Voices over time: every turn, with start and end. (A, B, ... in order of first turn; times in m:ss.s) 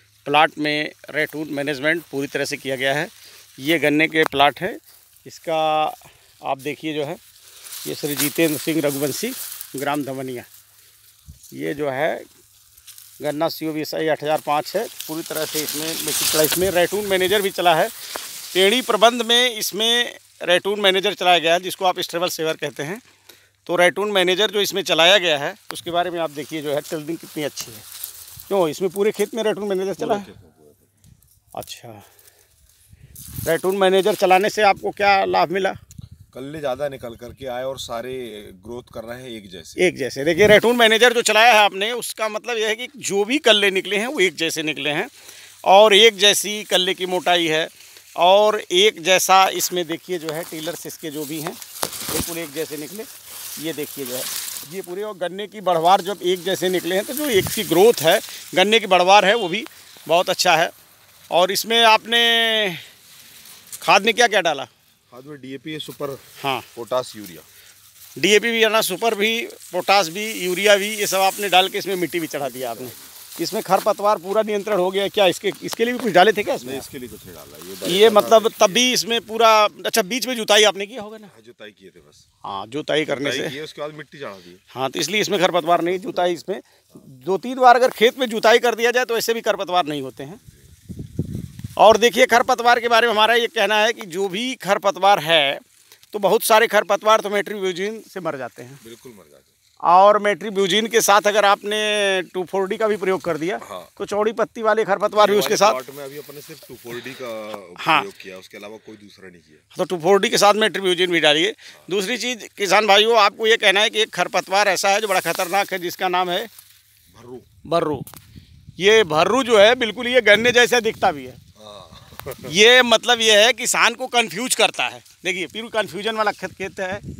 0:00.2-0:07.2 A
0:07.8-0:10.5 A
0:11.5-0:12.3 A
0:13.2-0:17.9 A
0:18.5-0:23.0 A
0:23.6-0:27.8 A
0:28.5-0:30.3 A
0:30.0-0:30.9 B
0:31.5-0:32.0 A
0:33.4-0:35.8 A
0:36.3-0:39.8 B
0:39.8-0:45.1 A
0:45.6-1:00.7 A
1:01.3-1:02.8 A
1:03.8-1:04.7 A
1:05.1-1:06.2 B
1:06.4-1:06.7 A
1:06.7-1:07.5 B
1:08.2-1:16.8 A
1:12.4-1:13.0 B
1:16.6-1:18.8 B
1:17.8-1:21.3 A
1:21.3-1:22.2 B
1:22.4-1:23.5 A
1:23.1-1:24.6 B
1:24.7-1:30.4 A
1:31.8-1:38.8 A
1:38.8-1:39.5 B
1:39.8-1:45.8 A
1:43.6-1:43.9 B
1:45.2-1:49.6 B
1:47.8-1:48.1 A
1:49.7-1:56.5 A
1:57.1-1:57.5 B
1:57.6-1:58.1 A
1:58.8-2:01.4 A
2:01.5-2:02.5 B
2:02.4-2:07.0 A